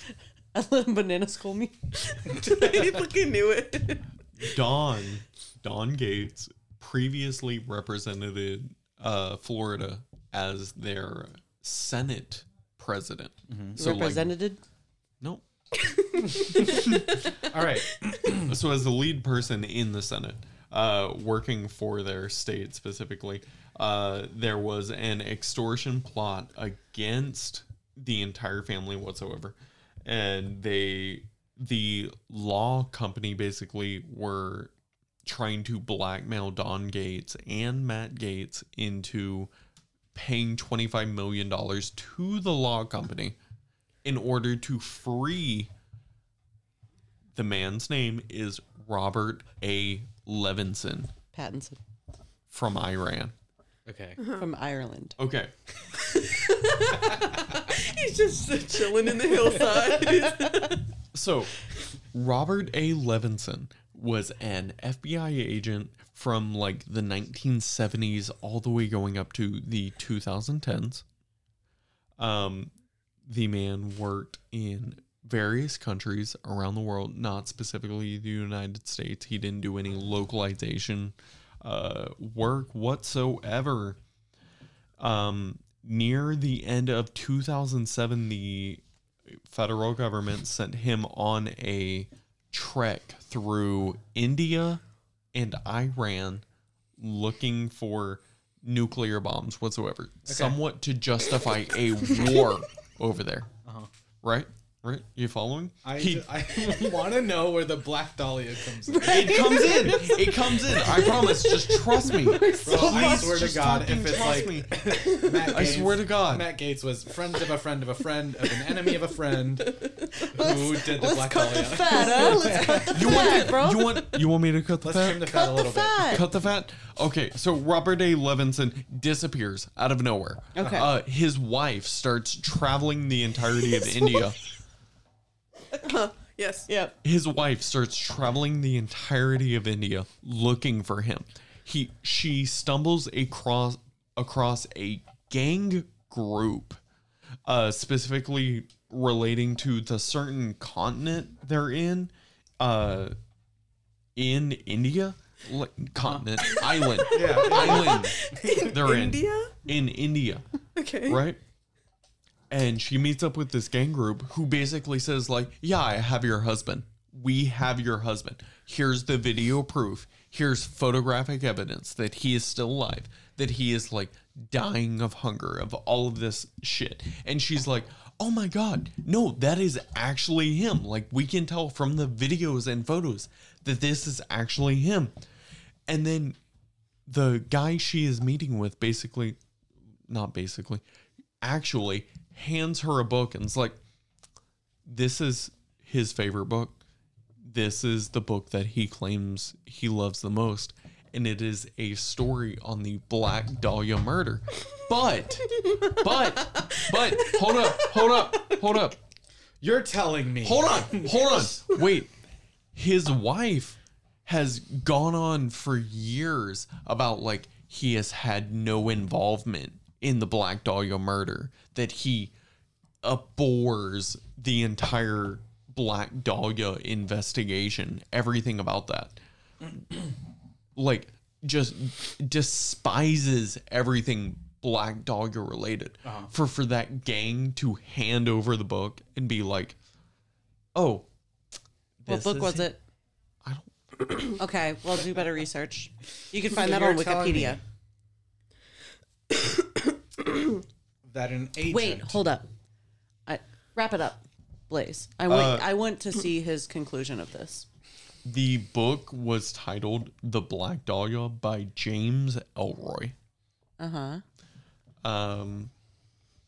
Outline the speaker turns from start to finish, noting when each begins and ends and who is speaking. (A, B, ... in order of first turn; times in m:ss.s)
0:00.5-0:01.8 A
0:02.0-0:04.1 B
0:04.4-0:14.3 C
0:13.5-0:13.8 D
0:13.8-0:14.6 A
0:15.8-0:17.3 B
0:16.3-0:16.9 D
0:16.6-0:17.2 C
0:17.5-0:18.6 D
0:18.4-0:34.7 C
0:35.2-0:39.5 C
0:40.1-0:43.4 C
0:44.0-0:45.7 C
0:47.3-0:51.1 C
0:51.3-0:51.8 A
0:52.5-0:53.3 C
0:53.8-0:54.2 D
0:54.2-0:54.4 B
0:54.3-0:55.2 A
0:55.2-0:55.5 C
0:55.9-1:00.8 B
1:01.1-1:01.5 C
1:02.1-1:11.0 C
1:12.2-1:12.7 C
1:13.2-1:24.0 C
1:25.0-1:34.8 C
1:35.3-1:36.4 C
1:37.0-1:43.5 C
1:40.3-1:40.6 D
1:43.6-1:43.9 D
1:44.2-1:46.6 C
1:45.8-1:49.7 D
1:48.9-1:53.4 A
1:49.0-1:56.5 C
1:52.6-2:03.1 D
2:00.2-2:04.2 A
2:02.9-2:05.5 C
2:04.8-2:06.2 D
2:05.3-2:06.2 A
2:06.0-2:14.4 C
2:10.5-2:10.9 A
2:10.6-2:10.9 D
2:15.7-2:16.7 B
2:16.7-2:16.9 A
2:17.0-2:26.8 C
2:27.4-2:33.2 C
2:34.2-2:40.4 C
2:36.0-2:36.3 D
2:36.5-2:39.5 B
2:37.1-2:38.7 D
2:40.7-2:41.2 B
2:41.0-2:41.4 C
2:42.5-3:05.1 C
3:05.9-3:06.4 C
3:07.0-3:09.4 C
3:10.1-3:10.8 C
3:11.4-3:13.8 C
3:14.8-3:16.8 C
3:17.4-3:29.0 C
3:29.6-3:31.4 D
3:30.4-3:32.1 C
3:32.7-3:42.3 C
3:43.0-3:49.2 C
3:50.8-3:59.8 C
3:56.0-3:56.3 D
4:00.7-4:01.1 C
4:02.0-4:02.7 C
4:02.1-4:02.8 A
4:03.4-4:04.1 C
4:04.4-4:07.6 A
4:06.4-4:07.6 D
4:11.0-4:12.3 D
4:11.7-4:12.5 A
4:13.3-4:17.7 A
4:15.3-4:15.7 C
4:18.2-4:23.1 C
4:23.8-4:24.2 A
4:25.0-4:25.7 C